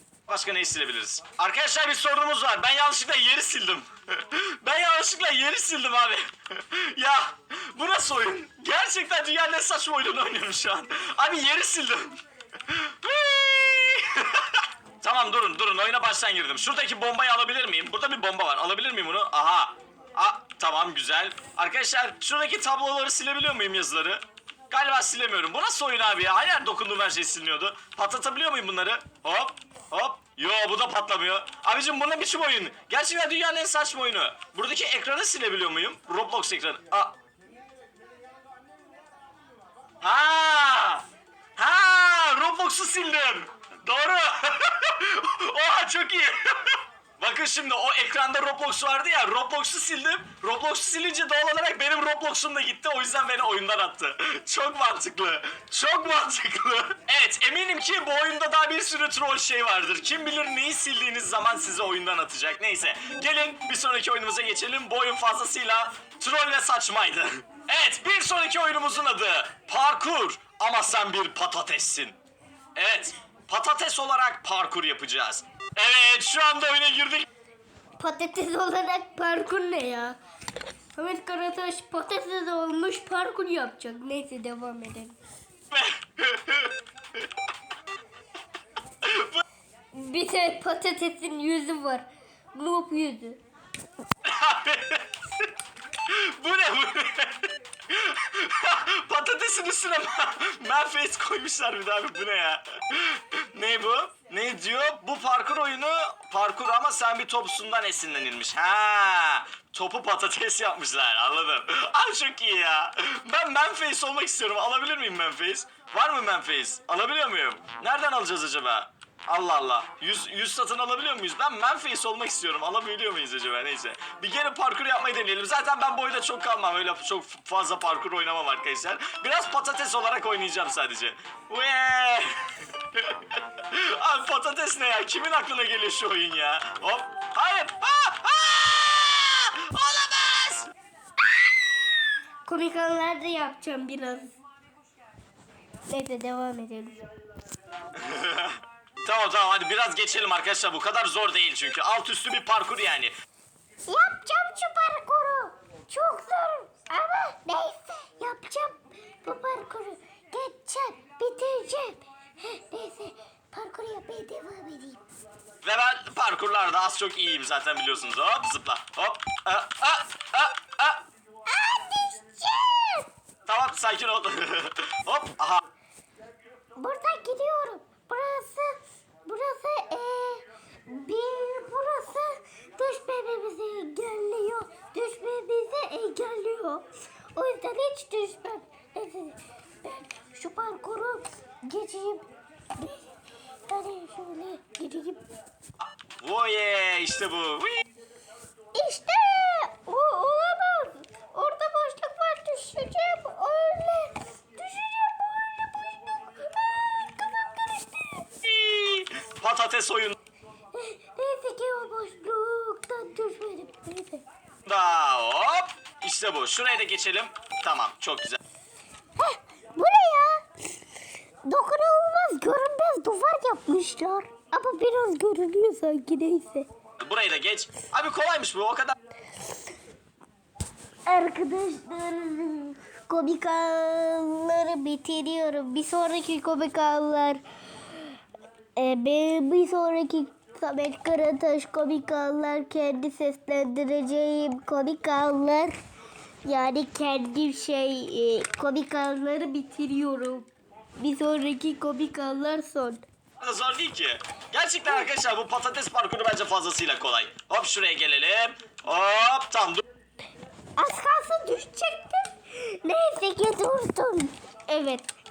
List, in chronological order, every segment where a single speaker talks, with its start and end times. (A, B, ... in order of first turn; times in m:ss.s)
0:00.3-0:37.2 A
0:40.0-0:41.0 A
0:41.6-1:12.2 A
1:12.8-1:17.3 A
1:18.0-1:20.2 B
1:21.0-1:25.2 B
1:25.7-1:27.2 A
1:29.0-1:29.4 A
1:29.9-1:33.4 B
1:34.2-1:35.5 A
1:36.0-2:20.7 A
2:22.4-2:24.4 B
2:25.9-2:27.1 B
2:27.9-2:33.1 A
2:33.9-2:45.0 B
2:45.6-2:51.0 A
2:51.5-2:53.1 B
2:53.5-2:55.6 A
2:56.8-3:13.0 B
3:13.7-3:15.2 B
3:16.2-3:17.8 A
3:18.7-3:28.3 B
3:28.4-3:30.2 A
3:30.7-3:34.2 B
3:34.7-3:38.4 A
3:39.2-3:40.4 B
3:41.5-3:46.7 B
3:47.0-3:49.0 A
3:51.1-3:57.4 B
3:58.8-4:05.8 B
4:06.4-4:13.0 B
4:13.4-4:19.8 A
4:20.8-4:25.1 B